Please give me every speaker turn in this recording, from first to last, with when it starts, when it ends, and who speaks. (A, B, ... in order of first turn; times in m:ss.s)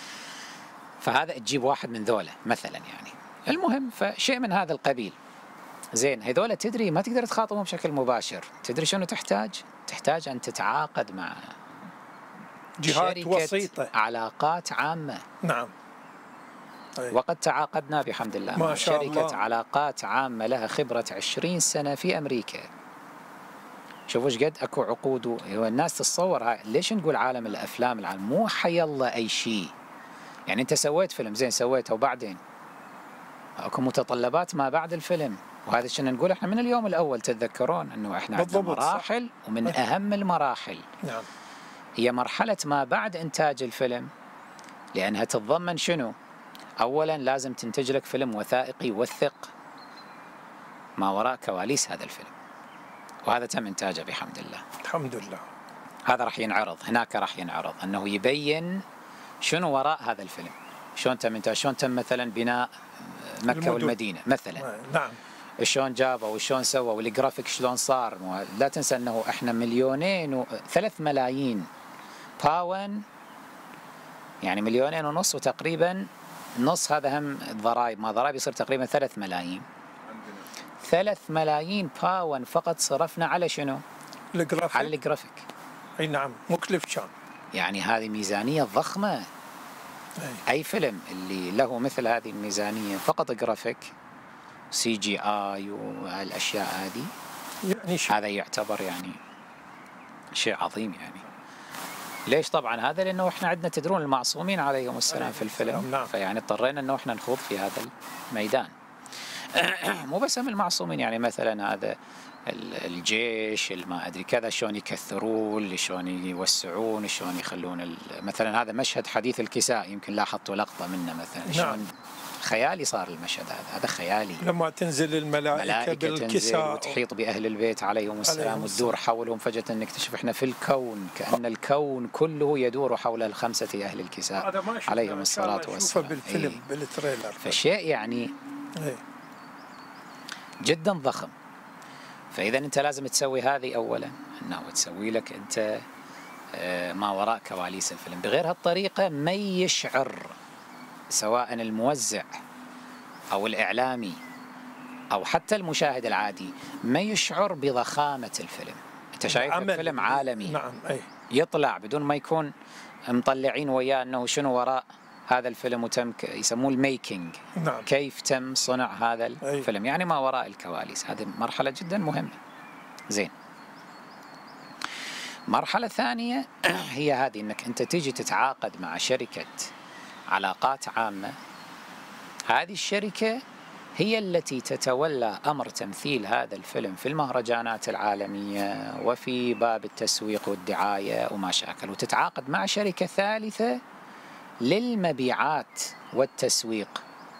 0:01.0-0:05.2 A
0:06.0-0:11.5 A
0:12.8-0:13.9 B
0:12.9-0:15.2 A
0:15.4-0:15.7 B
0:17.1-0:22.7 A
0:18.5-0:19.4 B
0:24.1-0:29.7 A
0:30.5-0:32.4 A
0:33.6-0:40.8 A
0:38.3-0:39.1 B
0:41.0-0:41.3 B
0:42.0-0:44.1 A
0:44.9-0:46.1 A
0:46.8-0:49.5 A
0:51.0-0:52.3 A
0:53.2-0:54.6 A
0:54.8-0:55.4 B
0:56.0-0:58.8 A
0:59.4-1:04.6 A
1:03.5-1:04.0 B
1:04.6-1:05.2 B
1:05.6-1:11.7 A
1:12.4-1:13.0 A
1:14.4-1:16.1 A
1:16.6-1:19.6 A
1:20.8-1:23.8 A
1:24.3-1:24.9 B
1:24.7-1:25.4 A
1:26.0-1:27.1 B
1:27.5-1:29.3 A
1:30.5-1:33.9 A
1:34.7-1:37.1 A
1:37.6-1:38.1 B
1:38.1-1:39.2 A
1:40.3-1:41.2 A
1:42.3-1:48.7 A
1:45.1-1:46.1 B
1:49.5-1:52.0 A
1:52.5-2:04.4 A
2:01.5-2:01.8 B
2:04.4-2:07.0 B
2:05.5-2:16.6 A
2:08.2-2:08.9 B
2:14.3-2:17.6 B
2:17.4-2:18.3 A
2:18.8-2:19.0 B
2:20.6-2:21.3 A
2:22.3-2:25.8 A
2:26.5-2:30.3 A
2:31.1-2:32.3 A
2:33.3-2:34.2 A
2:35.1-2:40.6 A
2:39.3-2:41.1 B
2:41.3-2:42.5 A
2:43.1-2:52.4 A
2:47.6-2:47.9 B
2:49.4-2:49.7 B
2:55.5-2:59.7 A
3:00.3-3:01.4 A
3:02.5-3:03.4 A
3:04.0-3:13.8 A
3:14.6-3:17.0 A